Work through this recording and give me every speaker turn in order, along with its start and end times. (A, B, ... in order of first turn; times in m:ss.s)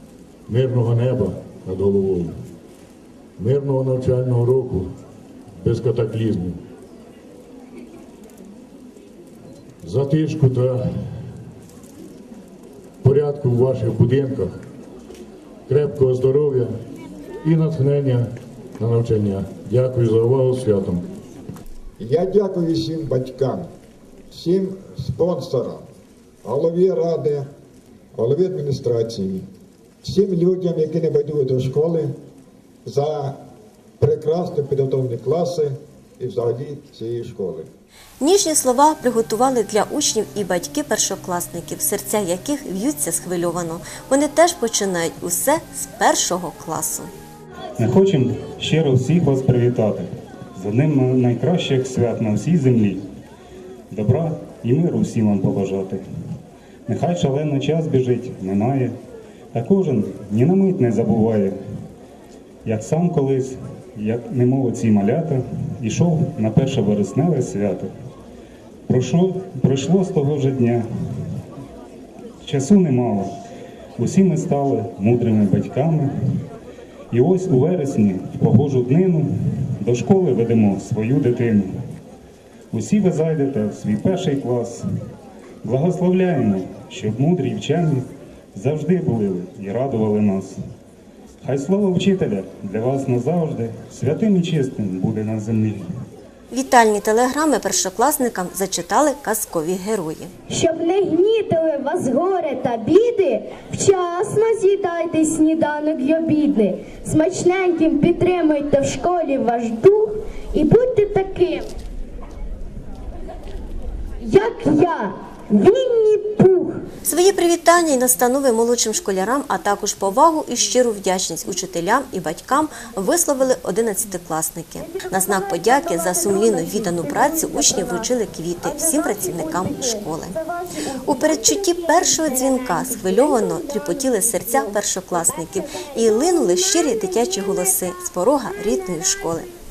0:00.5-0:02.3 A
0:03.4-0:04.9 A
0:05.6-0:06.6 A
0:09.8-0:10.8 A
0:13.0-0:14.5 A
0:15.7-0:16.7 A
0:17.4-0:21.1 A
0:22.0-0:23.7 B
0:24.3-0:25.8 B
0:26.4-0:27.5 B
0:28.1-0:29.4 B
0:30.0-0:32.1 B
0:32.8-0:33.4 B
0:34.0-0:37.7 B
0:38.2-0:47.1 C
0:47.8-0:53.0 D
0:53.9-0:56.0 D
0:56.9-0:58.9 D
0:59.5-1:01.6 D
1:02.6-1:07.9 D
1:08.9-1:10.8 D
1:12.4-1:13.3 D
1:14.0-1:16.4 D
1:17.1-1:21.7 D
1:22.7-1:24.8 D
1:25.6-1:30.6 D
1:31.4-1:35.8 D
1:36.5-1:40.3 C
1:40.5-1:51.7 E
1:54.2-1:56.8 E
1:57.0-2:10.4 C
2:04.9-2:08.0 E
2:08.6-2:14.1 E
2:11.0-2:19.5 C
2:15.6-2:17.5 E